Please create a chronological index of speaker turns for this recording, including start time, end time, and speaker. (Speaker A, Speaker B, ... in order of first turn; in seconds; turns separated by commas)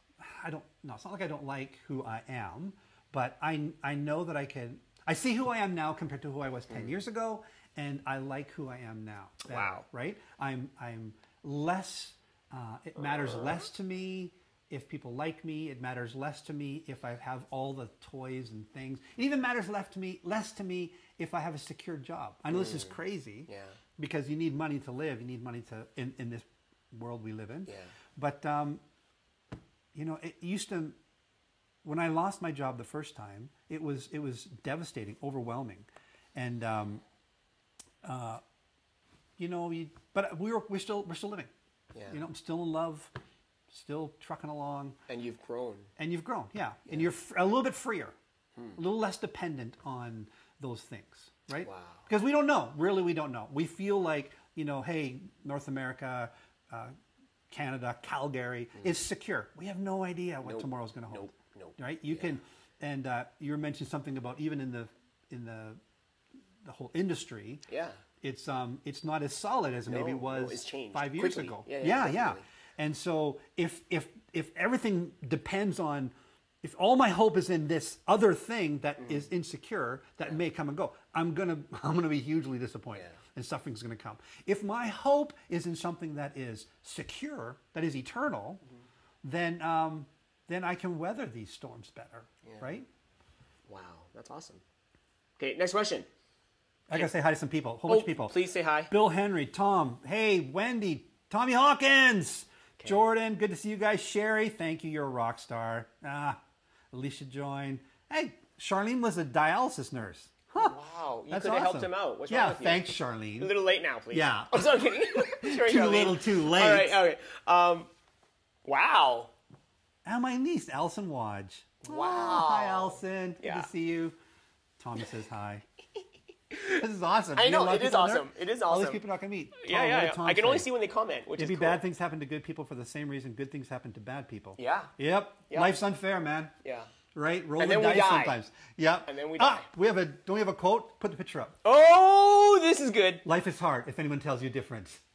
Speaker A: 0.2-28.8, Speaker B: 9.5-9.8, Speaker B: 22.5-23.0, Speaker B: 23.5-23.8, Speaker B: 27.7-27.9, Speaker A: 29.9-31.0, Speaker A: 31.8-37.0, Speaker A: 38.0-38.4, Speaker A: 39.4-41.5, Speaker B: 41.9-42.2, Speaker A: 42.1-43.1, Speaker A: 43.7-45.0, Speaker B: 45.1-45.9, Speaker A: 46.0-48.1, Speaker A: 48.8-56.9, Speaker B: 51.6-52.0, Speaker A: 57.5-65.8, Speaker B: 60.4-62.3, Speaker A: 66.6-67.6, Speaker B: 67.7-68.0, Speaker A: 68.2-88.6, Speaker B: 69.9-72.4, Speaker A: 89.2-92.9, Speaker B: 92.4-92.8, Speaker B: 93.7-94.6, Speaker B: 95.4-96.1, Speaker A: 96.9-98.4, Speaker B: 97.9-98.9, Speaker A: 98.9-106.4, Speaker A: 106.9-110.8, Speaker B: 110.5-112.9, Speaker A: 111.3-113.5, Speaker B: 113.4-117.9, Speaker A: 114.1-117.0, Speaker B: 118.6-119.3, Speaker A: 120.0-124.2, Speaker B: 121.8-123.7, Speaker A: 124.8-125.6, Speaker B: 126.5-126.8, Speaker A: 126.7-130.7, Speaker B: 127.3-129.0, Speaker B: 129.6-131.8, Speaker A: 131.4-136.5, Speaker B: 134.6-134.9, Speaker B: 135.5-135.7, Speaker B: 136.6-136.9, Speaker A: 137.1-141.6, Speaker B: 137.6-138.4, Speaker B: 139.1-139.7, Speaker B: 141.6-143.2, Speaker A: 143.2-145.0